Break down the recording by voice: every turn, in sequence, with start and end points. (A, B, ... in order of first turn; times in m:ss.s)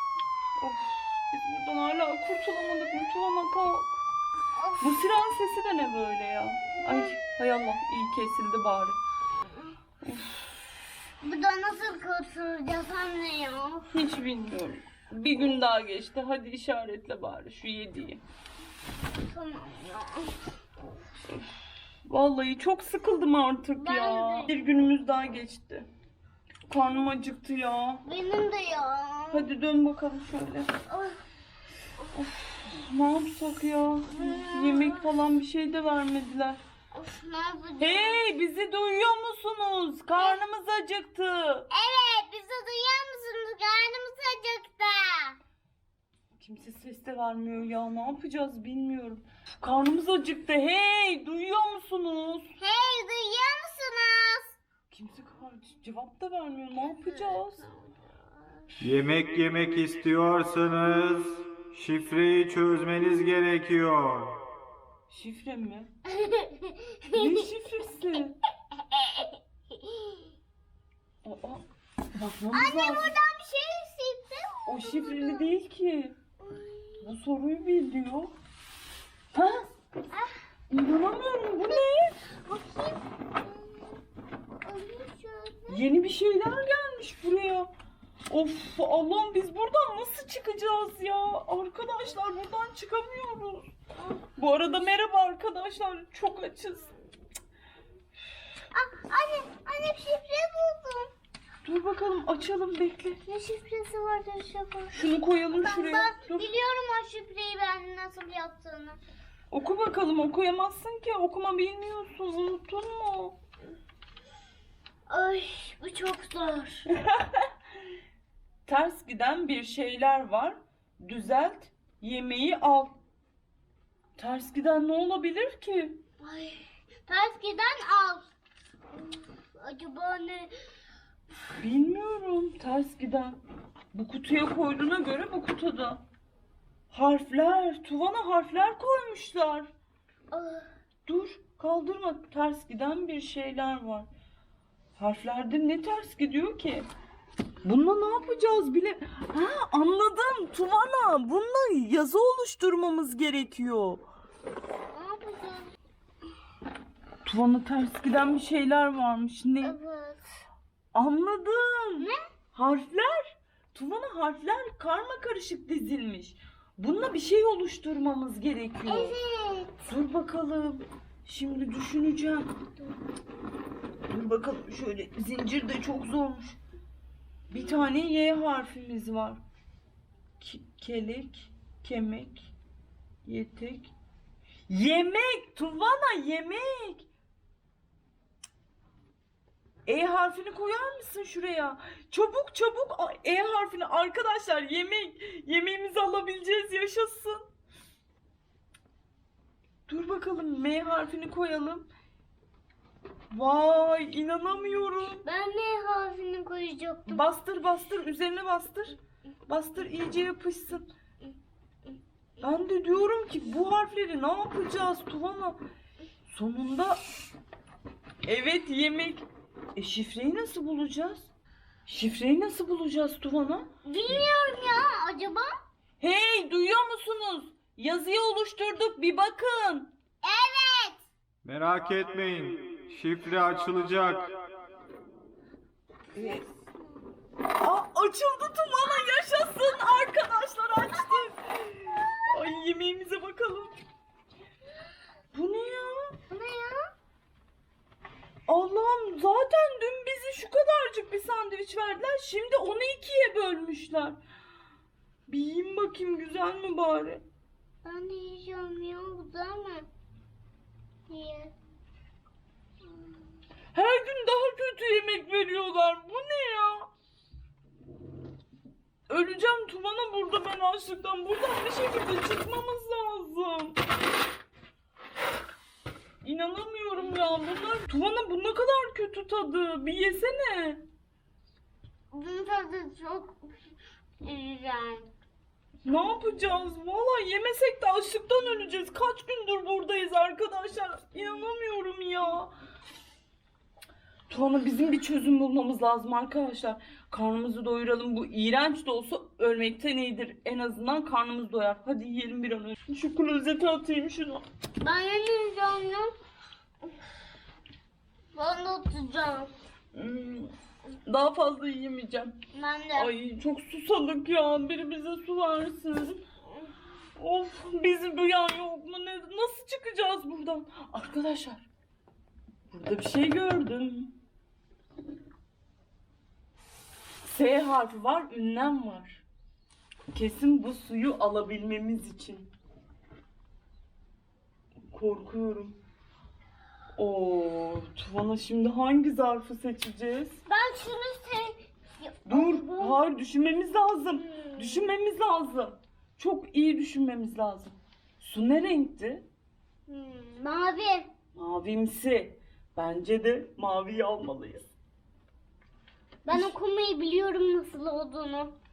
0:00.6-0:04.0 A
0:04.8-0:09.0 A
0:10.0-0:10.5 A
0:11.2-0:13.9 B
0:13.9-0:18.2 A
0:19.2-0:20.4 B
0:22.1-0:25.9 A
0:23.8-0:24.5 B
0:26.7-0:28.0 A
0:28.0-0:29.5 B
0:29.3-0:30.7 A
0:30.9-0:31.2 B
0:32.1-0:36.6 A
0:34.1-0:35.0 B
0:36.9-0:38.2 B
0:37.8-0:41.7 A
0:41.7-0:45.4 B
0:46.4-0:52.5 A
0:52.6-0:54.6 B
0:54.9-0:57.6 A
0:57.0-0:58.0 B
0:58.8-1:04.4 C
1:05.1-1:05.9 A
1:06.1-1:07.5 B
1:07.1-1:08.4 A
1:08.8-1:10.3 B
1:11.2-1:11.6 A
1:12.1-1:13.1 A
1:12.5-1:15.5 B
1:14.7-1:16.2 A
1:16.4-1:17.1 B
1:17.0-1:18.3 A
1:19.3-1:19.7 A
1:20.1-1:20.4 B
1:20.7-1:22.2 A
1:22.4-1:24.0 B
1:24.6-1:25.8 B
1:25.7-1:27.7 A
1:28.3-1:33.7 A
1:34.4-1:36.9 A
1:38.7-1:41.1 B
1:41.6-1:43.2 A
1:43.2-1:49.0 B
1:44.9-1:46.5 A
1:49.5-1:53.4 A
1:55.1-1:56.9 B
1:56.9-1:57.5 A
1:58.7-2:03.0 A
2:04.2-2:06.0 A
2:06.2-2:08.3 B
2:08.9-2:10.5 B
2:11.6-2:13.4 A
2:13.9-2:16.0 A
2:16.9-2:19.7 A
2:20.3-2:20.6 B
2:21.1-2:24.1 A
2:25.0-2:26.9 A
2:27.6-2:34.0 A
2:34.9-2:35.7 B
2:37.2-2:39.8 A
2:39.6-2:40.2 B
2:40.9-2:49.2 A
2:48.8-2:49.8 B
2:49.8-2:52.6 A
2:54.1-2:56.6 A
2:57.5-2:59.4 A
3:00.4-3:02.5 A
3:03.2-3:03.9 A
3:04.7-3:07.1 A
3:09.9-3:17.4 A
3:19.9-3:21.9 A
3:23.3-3:25.2 A
3:25.2-3:27.3 B
3:27.1-3:30.9 A
3:32.4-3:35.6 A
3:36.3-3:37.0 A
3:38.2-3:41.3 A
3:41.9-3:44.2 A
3:43.9-3:45.5 B
3:46.0-3:49.9 A
3:50.2-3:51.0 B
3:51.4-3:54.3 C
3:56.2-3:56.4 A
3:56.2-3:56.9 B
3:57.6-4:03.8 A
4:05.3-4:06.2 A
4:06.3-4:06.8 B
4:08.5-4:14.2 A
4:15.3-4:17.2 A
4:17.8-4:19.9 B
4:21.1-4:21.5 B
4:23.7-4:26.9 A
4:29.1-4:33.8 A
4:36.2-4:40.8 A
4:42.1-4:43.5 B
4:44.2-4:45.1 B
4:45.8-4:52.5 A
4:54.3-5:04.4 A
5:04.8-5:06.1 B
5:08.3-5:09.5 B
5:09.9-5:10.5 A
5:11.1-5:12.4 A
5:12.5-5:13.1 B
5:12.9-5:16.2 A
5:17.2-5:21.7 A
5:22.7-5:24.2 A
5:27.2-5:29.2 A
5:30.1-5:32.5 A
5:34.9-5:35.8 A
5:37.0-5:40.4 A
5:40.5-5:43.0 B
5:42.3-5:49.2 A
5:44.3-5:44.9 B
5:49.9-5:51.1 B
5:51.3-5:54.7 A
5:56.2-5:58.5 B